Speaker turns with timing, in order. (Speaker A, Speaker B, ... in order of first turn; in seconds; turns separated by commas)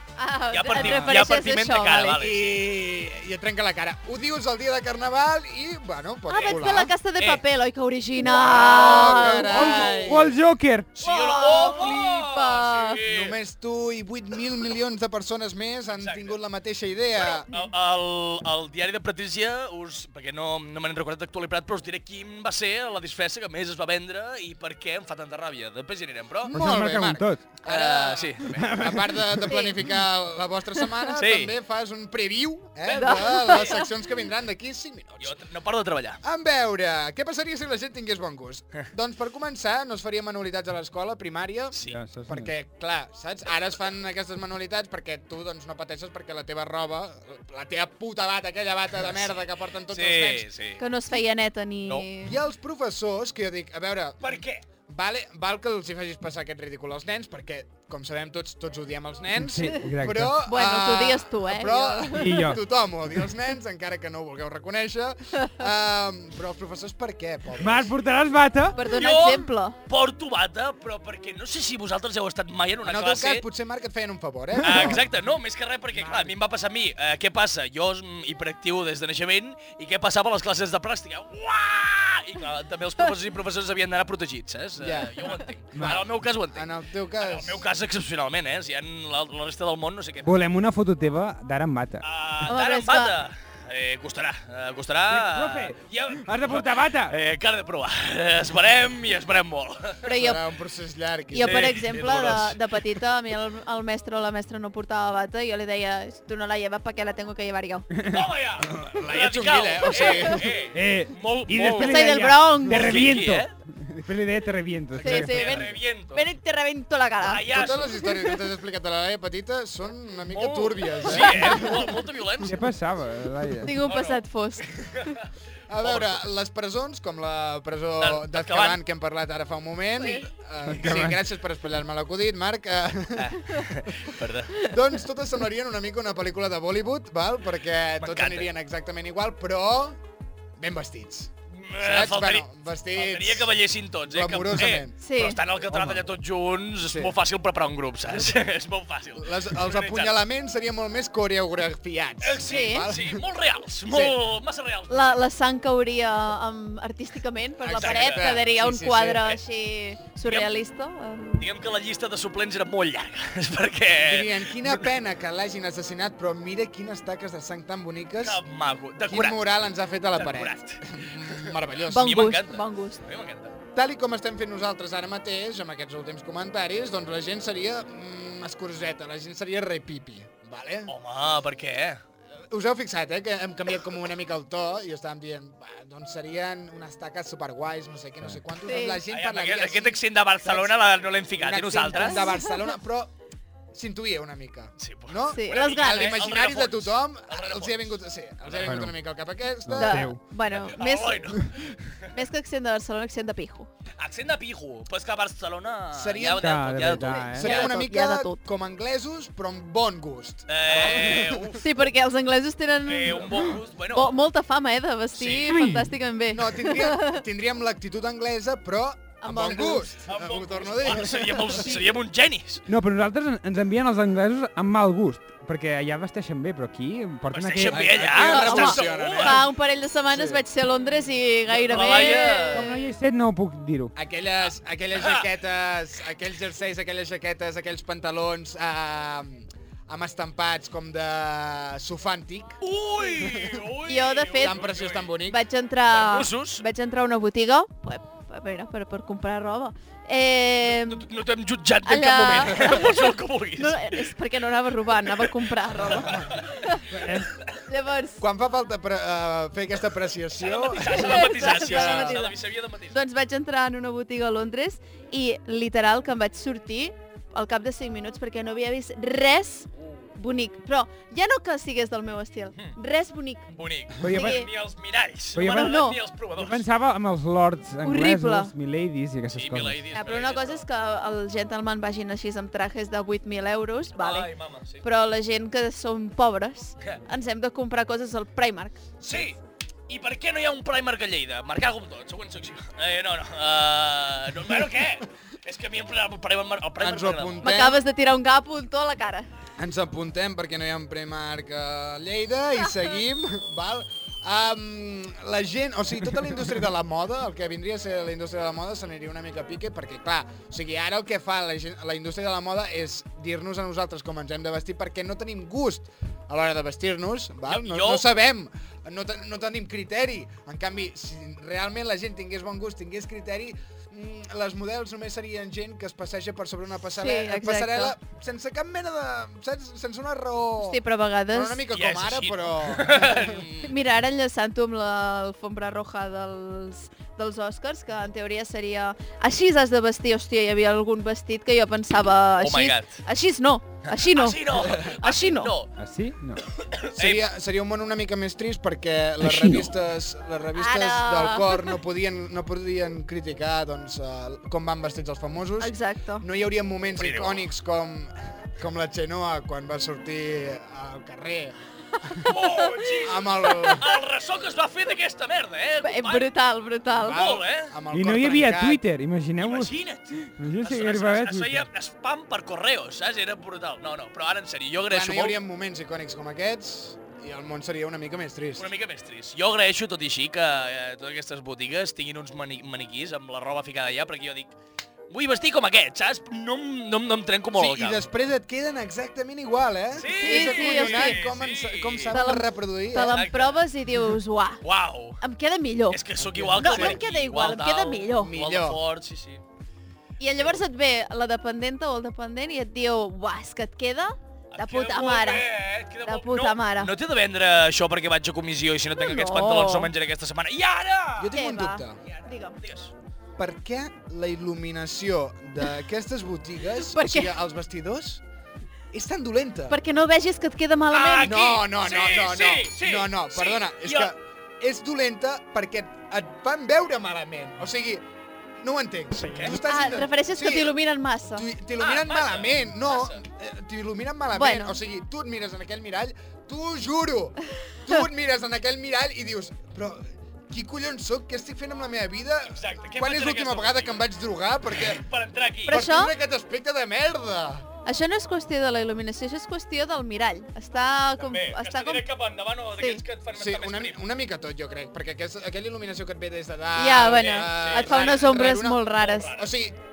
Speaker A: 0.2-2.2, Speaker B: 0.5-2.6, Speaker C: 0.8-1.2, Speaker D: 2.2-6.9, Speaker A: 6.3-10.1, Speaker D: 8.2-10.3, Speaker C: 9.1-10.9, Speaker B: 10.9-13.3, Speaker A: 11.0-13.0, Speaker D: 11.6-12.0, Speaker D: 13.0-17.5, Speaker B: 15.9-16.4, Speaker B: 17.2-26.5, Speaker D: 26.4-35.4, Speaker C: 26.5-27.4, Speaker B: 27.6-28.8, Speaker C: 28.6-29.4, Speaker A: 29.5-29.8, Speaker B: 31.1-31.5, Speaker B: 32.9-33.8, Speaker A: 32.9-33.9, Speaker B: 35.2-36.2, Speaker D: 36.2-41.7, Speaker B: 41.7-42.0, Speaker C: 41.9-42.5, Speaker D: 42.3-50.5, Speaker B: 49.0-50.8, Speaker A: 50.8-52.4, Speaker D: 52.2-67.9, Speaker B: 54.2-54.6, Speaker C: 59.4-60.4, Speaker A: 60.4-62.5, Speaker C: 62.1-62.6, Speaker C: 67.6-68.8, Speaker A: 68.8-69.8, Speaker B: 68.8-73.5, Speaker D: 72.8-75.0, Speaker B: 74.6-86.7, Speaker C: 76.0-76.3, Speaker D: 84.8-87.6, Speaker C: 85.8-86.0, Speaker B: 87.2-90.3, Speaker C: 90.2-92.0, Speaker B: 92.0-100.0, Speaker A: 92.5-93.2, Speaker C: 95.1-97.1, Speaker A: 100.0-100.4, Speaker D: 100.1-101.8, Speaker A: 101.3-107.9, Speaker B: 101.4-102.6, Speaker C: 107.9-108.2, Speaker B: 108.0-112.1, Speaker D: 108.6-110.4, Speaker C: 110.7-115.7, Speaker A: 111.8-113.0, Speaker B: 112.7-113.5, Speaker B: 115.0-116.2, Speaker A: 115.0-117.5, Speaker B: 117.2-118.0, Speaker D: 117.5-121.9, Speaker A: 118.0-118.4, Speaker B: 120.3-122.6, Speaker C: 122.4-123.8, Speaker A: 123.6-125.2, Speaker B: 123.8-125.2, Speaker D: 125.7-133.3, Speaker B: 125.8-126.3, Speaker B: 128.0-128.8, Speaker A: 130.0-130.3, Speaker C: 130.7-131.2, Speaker B: 133.2-134.6, Speaker D: 134.5-140.0, Speaker B: 138.0-138.5, Speaker D: 140.6-144.9, Speaker B: 141.5-150.2, Speaker A: 145.0-145.4, Speaker C: 145.7-146.0, Speaker D: 146.8-147.2, Speaker D: 148.1-148.4, Speaker D: 149.1-153.2, Speaker B: 152.2-155.2, Speaker A: 152.4-152.9, Speaker D: 153.8-154.2, Speaker A: 154.9-161.5, Speaker D: 157.6-159.4, Speaker B: 157.7-158.4, Speaker B: 160.2-160.5, Speaker B: 161.4-164.9, Speaker D: 164.0-168.4, Speaker B: 168.2-169.5, Speaker D: 169.1-172.3, Speaker B: 170.1-173.5, Speaker A: 171.9-173.0, Speaker D: 173.7-180.9, Speaker B: 180.9-182.0, Speaker D: 182.5-190.8, Speaker A: 188.6-189.0, Speaker B: 189.1-192.3, Speaker D: 191.3-193.1, Speaker A: 192.0-192.7, Speaker D: 193.7-200.1, Speaker B: 194.8-198.8, Speaker A: 195.3-196.2, Speaker C: 198.6-198.9, Speaker C: 199.7-200.2, Speaker A: 199.8-201.4, Speaker B: 200.5-202.1, Speaker A: 202.1-203.7, Speaker B: 204.0-207.7, Speaker D: 205.9-206.7, Speaker C: 206.4-207.6, Speaker A: 207.0-208.4, Speaker D: 207.3-211.6, Speaker B: 210.5-211.9, Speaker A: 211.6-217.2, Speaker B: 212.8-214.1, Speaker B: 215.1-215.5, Speaker D: 216.3-221.6, Speaker A: 219.2-219.9, Speaker B: 220.1-222.6, Speaker A: 221.5-221.8, Speaker C: 222.7-228.4, Speaker B: 227.3-229.4, Speaker D: 227.7-229.5, Speaker A: 228.3-232.9, Speaker D: 230.1-230.4, Speaker B: 231.7-232.7, Speaker C: 232.5-233.9, Speaker D: 233.9-242.6, Speaker B: 234.9-235.2, Speaker B: 242.6-245.1, Speaker A: 243.9-244.6, Speaker D: 244.4-245.4, Speaker A: 245.2-251.1, Speaker B: 245.9-246.6, Speaker B: 250.7-254.1, Speaker A: 251.8-256.8, Speaker B: 255.2-256.6, Speaker D: 255.9-256.2, Speaker C: 256.9-257.3, Speaker A: 257.5-258.2, Speaker D: 258.2-262.2, Speaker B: 260.3-263.0, Speaker A: 260.8-262.4, Speaker A: 262.9-273.4, Speaker B: 269.8-270.1, Speaker B: 273.5-276.6, Speaker C: 274.0-274.4, Speaker A: 274.1-274.5, Speaker C: 275.3-279.9, Speaker A: 275.4-276.0, Speaker A: 277.8-278.5, Speaker B: 279.3-280.6, Speaker A: 279.9-284.3, Speaker B: 284.0-284.8, Speaker A: 284.8-288.8, Speaker B: 289.0-297.5, Speaker D: 296.8-297.8, Speaker A: 297.4-299.3, Speaker D: 299.6-330.8, Speaker B: 317.5-318.1, Speaker A: 327.0-327.9, Speaker A: 330.6-331.6, Speaker D: 331.3-333.4, Speaker B: 331.7-333.7, Speaker A: 333.6-345.6, Speaker B: 342.4-343.0, Speaker B: 343.9-345.7, Speaker C: 345.8-346.4, Speaker B: 346.5-347.2, Speaker D: 346.9-361.6, Speaker A: 350.5-351.8, Speaker A: 355.6-356.2, Speaker B: 356.9-357.5, Speaker B: 362.2-366.3, Speaker D: 363.0-363.9, Speaker A: 365.8-367.3, Speaker D: 367.0-368.8, Speaker B: 367.0-367.7, Speaker C: 367.9-371.7, Speaker B: 369.4-375.4, Speaker D: 374.9-378.7, Speaker B: 378.6-384.5, Speaker B: 385.1-388.1, Speaker D: 387.5-393.2, Speaker B: 389.9-392.2, Speaker A: 390.2-391.2, Speaker A: 392.1-394.6, Speaker B: 393.0-393.6, Speaker B: 394.6-395.2, Speaker A: 395.2-396.0, Speaker B: 395.9-399.4, Speaker D: 396.2-397.0, Speaker A: 396.6-398.3, Speaker D: 398.2-398.8, Speaker A: 400.2-405.5, Speaker B: 404.5-411.3, Speaker A: 406.0-406.9, Speaker A: 409.0-409.9, Speaker D: 411.2-412.0, Speaker A: 411.3-412.6, Speaker B: 412.0-412.9, Speaker D: 413.4-418.2, Speaker A: 416.9-417.3, Speaker D: 418.9-419.8, Speaker A: 419.7-421.4, Speaker B: 420.9-424.1, Speaker D: 421.2-428.1, Speaker D: 428.6-430.8, Speaker B: 429.2-429.6, Speaker A: 429.5-431.5, Speaker D: 431.3-445.1, Speaker B: 431.8-433.2, Speaker A: 434.3-434.8, Speaker B: 442.5-444.1, Speaker B: 444.7-445.8, Speaker A: 445.7-446.1, Speaker D: 445.7-447.6, Speaker A: 447.8-452.1, Speaker B: 451.2-454.0, Speaker A: 452.8-453.0, Speaker D: 453.3-459.8, Speaker A: 456.8-459.3, Speaker B: 457.4-459.5